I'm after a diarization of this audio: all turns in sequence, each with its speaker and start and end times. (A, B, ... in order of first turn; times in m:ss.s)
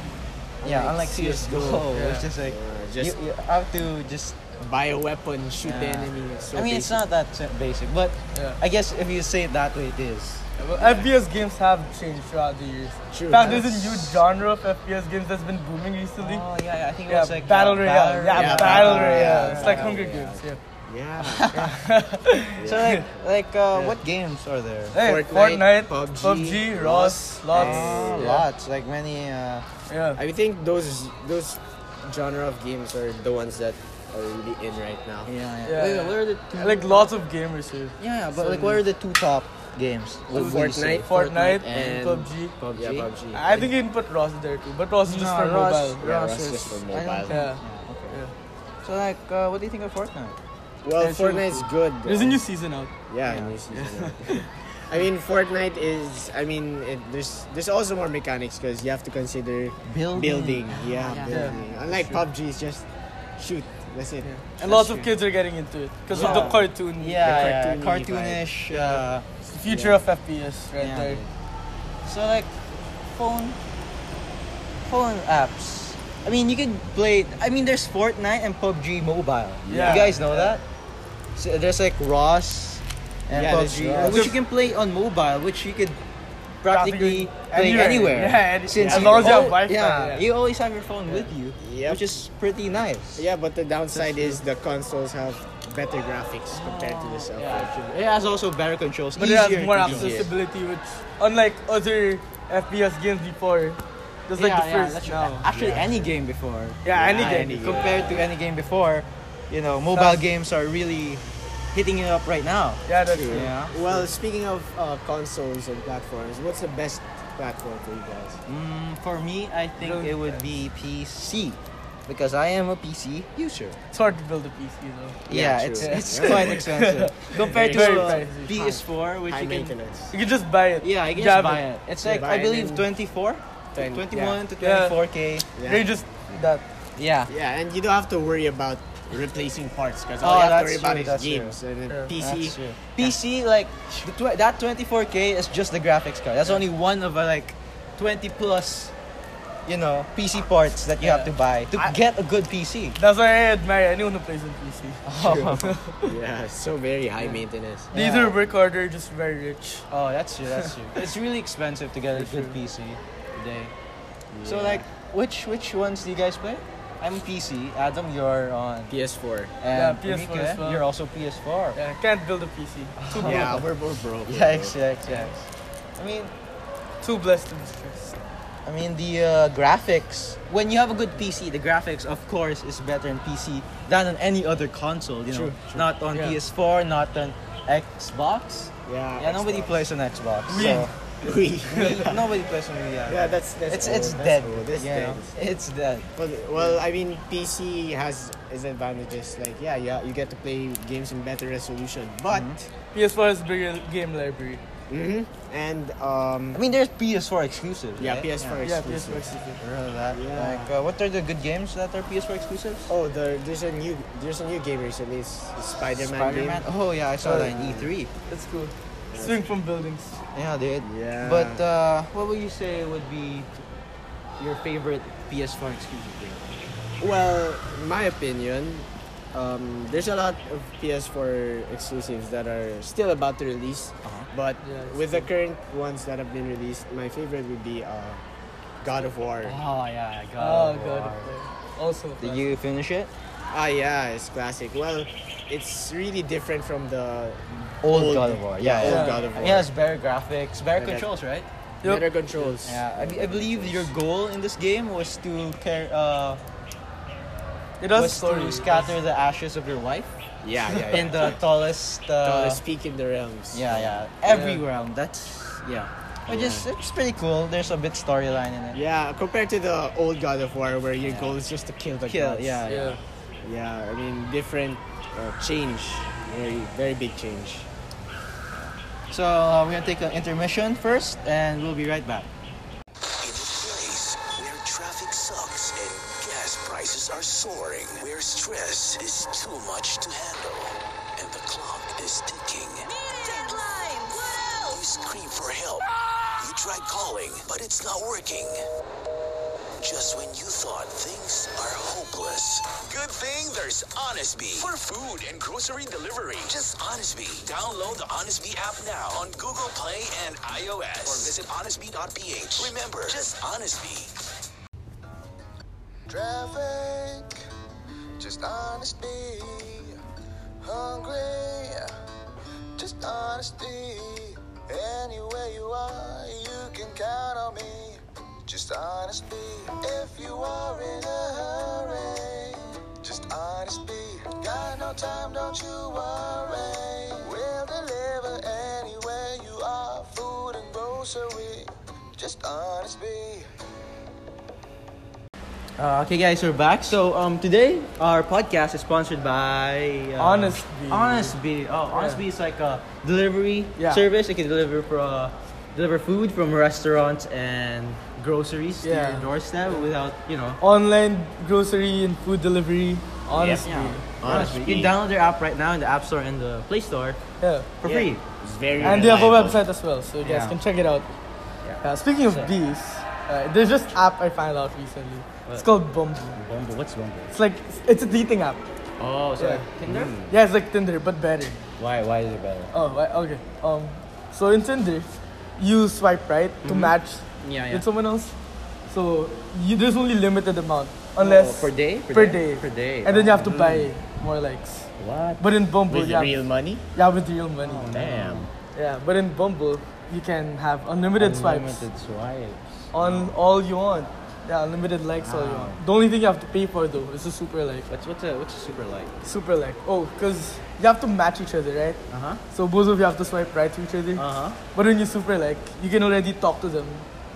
0:00.6-0:01.9 A
0:00.6-0:04.4 B
0:01.9-0:02.2 C
0:02.4-0:03.2 A
0:04.6-0:07.0 A
0:05.6-0:10.5 B
0:08.3-0:08.6 C
0:10.6-0:11.1 A
0:10.6-0:16.4 C
0:13.1-0:14.2 A
0:16.2-0:20.0 B
0:17.0-0:20.6 C
0:18.3-0:21.5 A
0:21.2-0:21.7 B
0:21.5-0:23.0 C
0:22.6-0:24.0 A
0:22.6-0:25.0 B
0:24.9-0:28.5 C
0:25.0-0:28.3 A
0:27.5-0:29.6 B
0:29.9-0:30.2 C
0:30.1-0:35.3 A
0:35.2-0:37.1 B
0:35.6-0:38.8 C
0:38.0-0:41.1 B
0:40.3-0:43.7 A
0:41.0-0:42.6 C
0:42.6-0:43.1 B
0:43.3-0:46.0 C
0:45.0-0:48.2 B
0:46.0-0:47.4 A
0:47.3-0:48.3 C
0:48.8-0:50.4 B
0:50.8-0:52.4 A
0:51.0-0:52.9 C
0:53.1-1:02.8 A
0:53.2-0:53.6 B
0:53.7-0:54.5 C
0:59.8-1:01.6 B
1:01.3-1:02.2 C
1:03.4-1:04.8 A
1:04.2-1:07.2 C
1:04.6-1:05.1 B
1:06.1-1:09.0 A
1:06.1-1:09.2 B
1:09.5-1:11.2 C
1:09.6-1:10.0 A
1:10.8-1:11.3 B
1:12.0-1:12.5 B
1:13.1-1:13.6 B
1:14.8-1:20.6 B
1:19.7-1:20.5 C
1:19.8-1:20.5 A
1:21.4-1:26.0 B
1:23.3-1:24.4 A
1:24.0-1:24.3 C
1:26.6-1:33.3 B
1:26.7-1:30.2 C
1:28.7-1:29.3 A
1:31.6-1:32.2 A
1:33.1-1:38.0 A
1:33.9-1:34.4 B
1:34.0-1:34.3 C
1:36.5-1:40.2 B
1:39.2-1:45.4 C
1:39.8-1:40.3 A
1:44.4-1:54.1 B
1:45.5-1:46.1 A
1:46.8-1:48.1 C
1:46.9-1:48.2 A
1:49.9-1:50.2 C
1:52.8-1:53.5 C
1:53.0-1:58.4 A
1:58.4-2:03.8 B
1:59.8-2:00.4 C
2:03.9-2:05.2 C
2:05.3-2:09.8 B
2:05.3-2:06.7 A
2:05.8-2:08.8 C
2:07.3-2:08.2 A
2:09.3-2:10.1 A
2:10.1-2:11.6 C
2:10.8-2:15.5 B
2:12.0-2:12.9 A
2:13.7-2:14.4 A
2:14.6-2:15.0 C
2:15.6-2:16.4 A
2:15.6-2:16.6 C
2:17.0-2:17.3 B
2:17.3-2:23.2 A
2:20.2-2:21.6 B
2:21.9-2:22.1 C
2:22.1-2:28.9 B
2:29.6-2:33.0 B
2:31.0-2:32.0 C
2:33.0-2:36.1 C
2:35.0-2:35.8 B
2:36.0-2:37.9 A
2:37.9-2:38.4 B
2:37.9-2:39.9 C
2:39.9-2:43.7 B
2:42.1-2:42.6 C
2:44.3-2:44.9 A
2:44.4-2:48.9 B
2:48.9-2:49.5 A
2:49.6-2:51.8 B
2:49.7-2:50.9 C
2:51.7-2:53.6 C
2:53.0-2:53.6 B
2:53.2-2:55.2 A
2:54.2-2:56.3 B
2:57.0-2:58.2 C
2:58.6-3:10.9 B
3:05.3-3:05.9 A
3:06.1-3:06.4 C
3:08.8-3:09.9 A
3:10.5-3:12.0 C
3:10.5-3:12.2 A
3:11.7-3:16.8 B
3:13.1-3:15.3 A
3:16.2-3:22.7 A
3:22.3-3:22.6 B
3:22.9-3:24.6 C
3:24.9-3:26.6 A
3:26.5-3:28.7 B
3:28.0-3:29.3 A
3:28.6-3:29.6 C
3:29.6-3:32.9 B
3:30.1-3:30.7 A
3:32.9-3:36.7 A
3:35.9-3:38.1 B
3:37.2-3:37.9 A
3:38.3-3:40.2 C
3:39.1-3:39.4 A
3:40.3-3:43.5 B
3:40.8-3:41.6 A
3:44.4-3:46.5 B
3:47.0-3:58.2 A
3:54.0-3:54.3 B
3:54.6-3:55.3 C
3:58.8-3:59.6 A
3:59.4-4:01.3 B
4:00.4-4:02.4 C
4:02.2-4:03.1 B
4:03.5-4:09.7 A
4:07.8-4:11.5 B
4:08.8-4:09.2 C
4:10.8-4:11.1 A
4:11.8-4:13.9 A
4:12.4-4:16.4 B
4:17.8-4:19.0 C
4:17.9-4:20.1 B
4:20.4-4:21.5 A
4:20.9-4:22.6 B
4:22.2-4:24.0 A
4:23.5-4:28.8 B
4:24.3-4:24.6 C
4:26.3-4:26.7 A
4:28.7-4:32.6 A
4:31.0-4:31.4 B
4:32.1-4:33.0 B
4:32.7-4:33.0 C
4:33.4-4:37.7 A
4:38.5-4:42.3 B
4:43.2-4:55.8 D
4:56.4-4:58.6 D
4:59.8-5:14.2 D
5:16.1-5:17.4 E
5:18.2-5:20.0 E
5:20.6-5:21.9 E
5:22.8-5:43.5 E
5:45.8-6:00.6 B
5:50.2-5:51.4 C
5:51.9-5:52.2 C
5:53.8-5:54.0 C
5:58.8-5:59.9 C
6:00.6-6:04.0 C
6:03.3-6:03.6 A
6:03.6-6:07.2 B
6:04.2-6:05.0 A
6:07.4-6:07.7 C
6:07.8-6:09.2 B
6:07.8-6:09.6 A
6:08.8-6:11.1 C
6:10.2-6:10.6 B
6:11.6-6:12.5 B
6:11.8-6:16.4 C
6:16.2-6:17.4 B
6:17.3-6:18.6 C
6:19.0-6:20.3 B
6:19.4-6:21.6 C
6:21.8-6:22.7 B
6:22.7-6:28.3 C
6:26.6-6:27.8 B
6:28.9-6:34.9 C
6:31.2-6:33.9 B
6:35.0-6:35.5 B
6:35.4-6:36.4 C
6:35.9-6:36.8 A
6:36.9-6:37.9 C
6:37.6-6:38.5 B
6:37.9-6:38.5 A
6:38.7-6:41.8 C
6:41.2-6:43.3 B
6:42.9-6:47.9 C
6:45.2-6:45.8 B
6:47.9-6:49.1 B
6:49.2-6:57.0 C
6:52.1-6:52.4 B
6:54.1-6:54.6 B